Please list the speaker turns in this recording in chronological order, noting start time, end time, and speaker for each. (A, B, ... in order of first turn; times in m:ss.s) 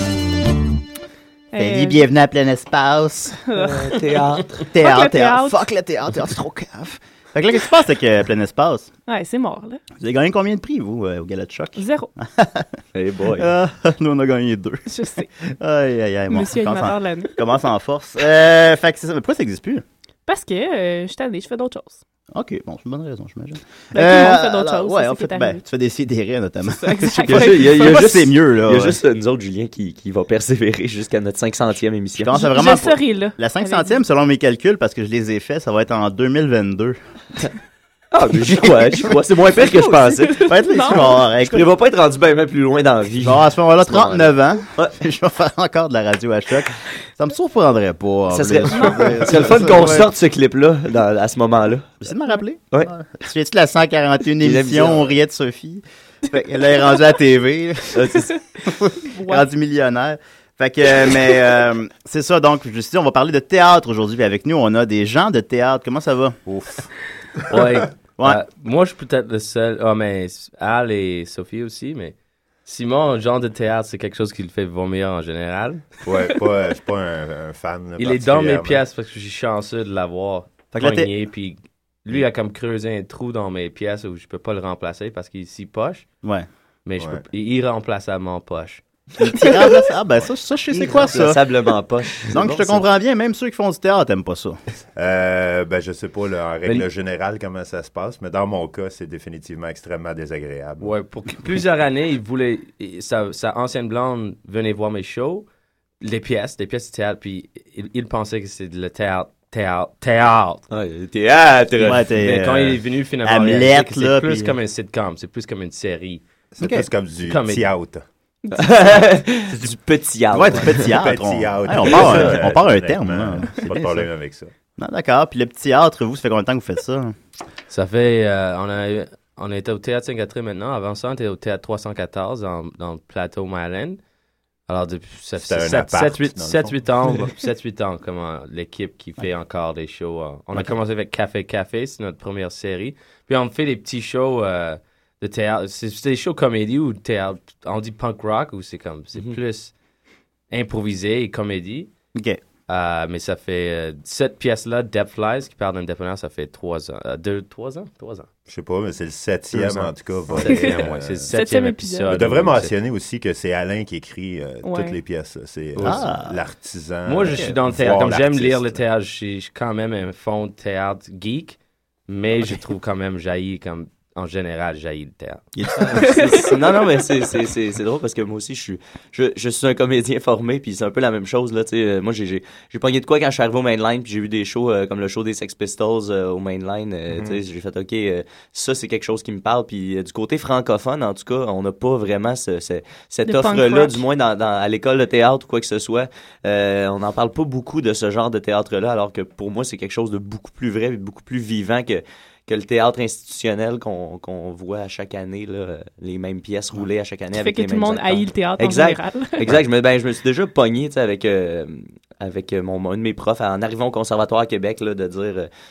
0:01.5-0:02.0 A
0:01.6-0:03.4 B
0:03.5-0:04.2 A
0:03.6-0:04.6 C
0:04.7-0:08.9 B
0:04.8-0:05.6 A
0:09.1-0:09.8 A
0:10.0-0:12.7 B
0:11.8-0:12.1 A
0:13.0-0:13.5 C
0:13.4-0:19.8 B
0:14.9-0:15.3 A
0:16.3-0:17.4 A
0:20.3-0:22.0 A
0:22.3-0:29.0 B
0:23.9-0:25.6 A
0:26.7-0:28.0 A
0:27.2-0:32.4 C
0:32.2-0:37.0 B
0:32.3-0:34.0 A
0:38.1-0:45.0 C
0:38.6-0:38.9 B
0:39.8-0:41.2 A
0:40.4-0:41.7 B
0:43.2-0:50.1 B
0:48.3-0:52.0 C
0:48.7-0:49.1 A
0:52.0-1:06.4 B
0:54.4-0:55.1 C
0:57.9-0:58.3 C
0:59.1-0:59.5 A
1:06.5-1:06.9 D
1:07.5-1:15.9 E
1:16.0-1:18.8 D
1:18.0-1:26.0 E
1:20.7-1:21.1 B
1:26.9-1:28.8 E
1:29.2-1:31.4 B
1:30.7-1:32.8 C
1:32.3-1:34.6 B
1:35.0-1:40.9 D
1:40.8-1:45.5 E
1:46.0-1:50.6 E
1:50.7-1:52.1 C
1:51.8-1:54.6 B
1:52.2-1:56.2 E
1:56.5-1:58.0 D
1:56.6-1:56.9 B
1:57.2-1:57.7 E
1:58.5-2:00.9 C
2:00.3-2:04.1 B
2:00.9-2:04.5 D
2:01.8-2:02.4 C
2:04.8-2:07.1 B
2:07.7-2:14.0 E
2:14.7-2:29.7 E
2:15.4-2:17.3 D
2:30.5-2:31.9 E
2:32.1-2:32.4 B
2:32.7-2:38.3 E
2:38.5-2:41.3 D
2:40.4-2:42.7 E
2:41.3-2:42.1 A
2:42.1-2:48.8 D
2:44.6-2:45.0 A
2:45.8-2:46.1 E
2:45.8-2:46.4 B
2:47.1-2:55.4 E
2:55.6-2:56.2 B
2:55.8-3:35.5 C
2:55.9-2:56.3 A
3:13.2-3:14.0 A
3:27.3-3:29.4 A